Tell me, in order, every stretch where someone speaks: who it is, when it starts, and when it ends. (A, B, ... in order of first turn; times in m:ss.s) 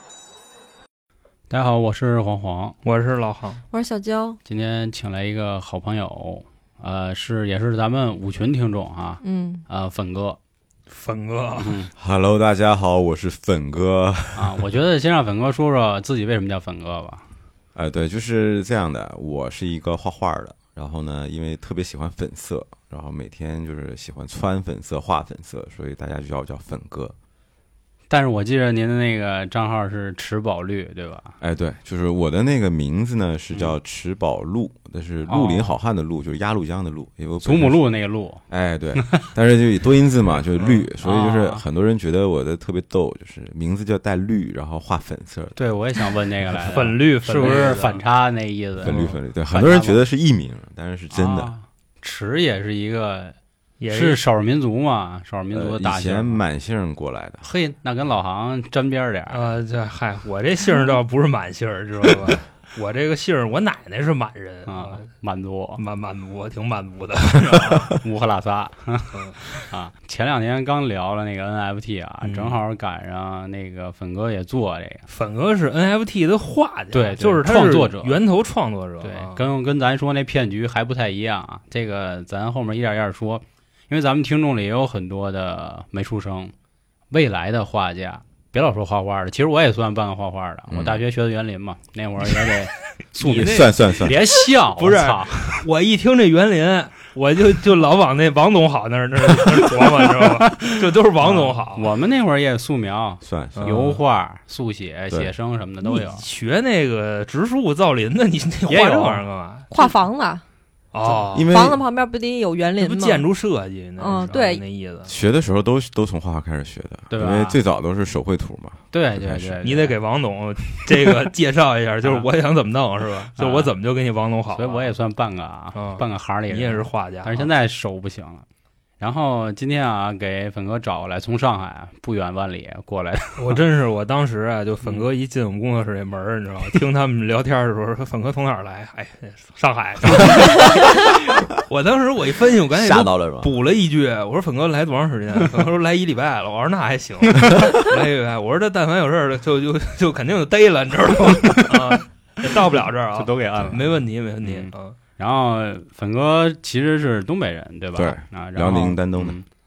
0:01.5-0:02.8 A
0:02.8-0:03.6 B
0:03.7-0:04.4 C
0:04.4-0:10.4 A
0:09.2-0:09.6 C
0:10.9-0:11.8 B
0:11.6-0:11.9 A
0:12.0-0:14.6 D
0:14.4-0:17.2 A
0:17.8-0:27.1 D
0:28.1-0:31.4 A
0:31.4-0:37.8 D
0:35.3-0:35.7 A
0:37.4-0:38.4 A
0:38.5-0:45.6 D
0:39.0-0:39.2 A
0:41.0-0:41.6 A
0:45.6-0:50.0 A
0:46.6-0:48.0 B
0:48.8-0:51.5 D
0:51.1-0:53.4 A
0:53.8-0:54.2 B
0:53.9-0:56.4 A
0:55.5-0:57.5 D
0:57.4-0:59.4 A
0:59.3-1:05.1 B
1:04.7-1:05.8 A
1:05.8-1:08.0 B
1:08.0-1:15.1 A
1:09.2-1:09.5 B
1:12.2-1:12.6 B
1:15.1-1:19.4 B
1:16.9-1:18.2 A
1:19.0-1:26.5 A
1:27.1-1:35.6 A
1:30.7-1:31.0 D
1:33.2-1:34.2 D
1:33.3-1:33.7 B
1:34.8-1:41.9 B
1:40.2-1:46.2 A
1:43.2-1:43.6 D
1:43.6-1:44.0 B
1:45.8-1:49.9 B
1:48.7-1:49.2 A
1:49.7-1:50.4 C
1:50.9-1:51.6 B
1:51.3-1:51.8 D
1:51.5-1:53.3 C
1:52.8-1:55.1 B
1:54.0-1:54.6 C
1:55.1-1:59.6 D
1:57.1-1:57.6 A
1:58.9-2:00.0 A
1:59.6-2:04.9 B
2:03.4-2:03.7 A
2:04.5-2:08.5 A
2:05.8-2:07.5 B
2:09.0-2:13.6 A
2:13.4-2:35.0 B
2:20.2-2:20.5 D
2:22.7-2:23.5 D
2:33.2-2:34.0 A
2:33.6-2:33.8 D
2:35.2-2:39.5 A
2:38.0-2:39.4 D